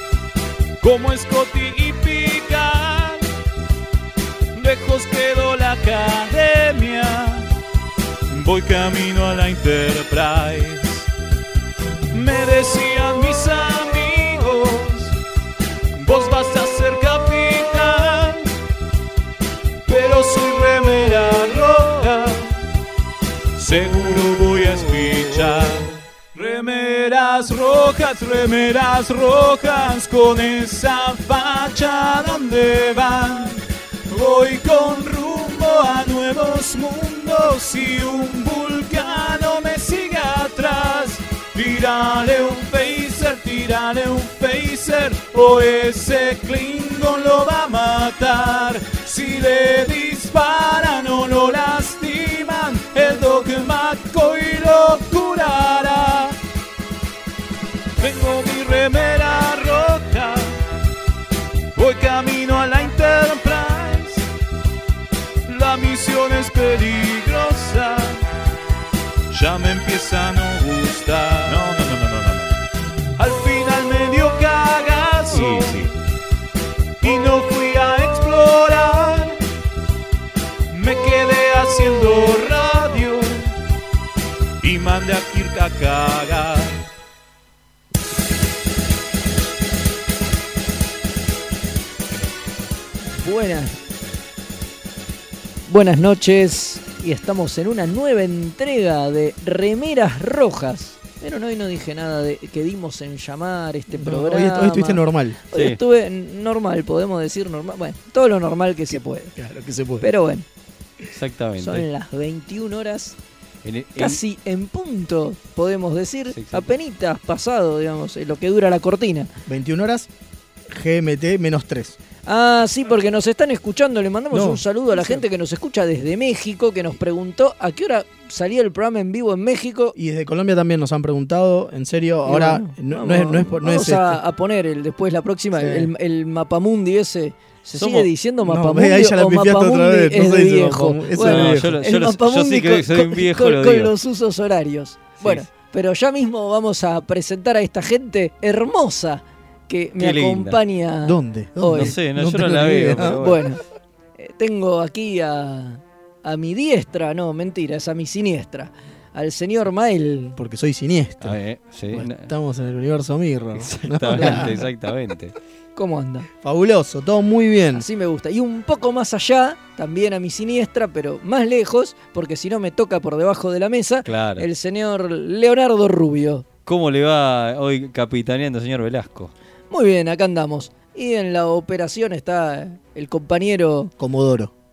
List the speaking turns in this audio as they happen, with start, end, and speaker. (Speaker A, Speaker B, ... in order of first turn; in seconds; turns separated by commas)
Speaker A: 0.8-3.2, Speaker A: 4.5-7.5, Speaker A: 8.3-11.1, Speaker A: 12.1-15.2, Speaker A: 15.9-18.5, Speaker A: 19.9-22.5, Speaker A: 23.6-56.4, Speaker A: 58.0-60.5, Speaker A: 61.8-64.3, Speaker A: 65.5-68.2, Speaker A: 69.3-72.5, Speaker A: 73.2-76.0, Speaker B: 75.3-75.9, Speaker A: 77.0-79.4, Speaker A: 80.7-83.5, Speaker A: 84.6-86.8, Speaker C: 93.2-93.7, Speaker C: 95.7-109.3, Speaker D: 103.9-105.4, Speaker D: 108.9-110.1, Speaker C: 110.0-110.5, Speaker B: 111.1-111.9, Speaker C: 111.6-113.2, Speaker B: 113.6-114.2, Speaker C: 114.0-119.3, Speaker B: 116.3-116.7, Speaker D: 119.5-120.1, Speaker D: 120.7-122.0, Speaker C: 122.3-129.9, Speaker D: 124.3-125.2, Speaker D: 129.9-134.2, Speaker C: 132.3-151.9, Speaker D: 135.6-135.9, Speaker B: 137.8-138.1, Speaker D: 138.4-141.7, Speaker B: 141.2-143.9, Speaker B: 150.0-150.6, Speaker D: 151.0-153.2, Speaker B: 151.7-153.4, Speaker C: 153.1-153.6, Speaker C: 154.2-160.4, Speaker D: 160.4-161.4, Speaker B: 161.2-162.3, Speaker D: 161.9-164.6, Speaker B: 163.6-165.3, Speaker C: 164.2-164.5, Speaker C: 165.8-166.3, Speaker D: 166.4-167.9, Speaker C: 167.7-176.4, Speaker B: 174.1-174.5, Speaker B: 176.7-179.3, Speaker C: 179.7-183.9, Speaker D: 184.0-184.5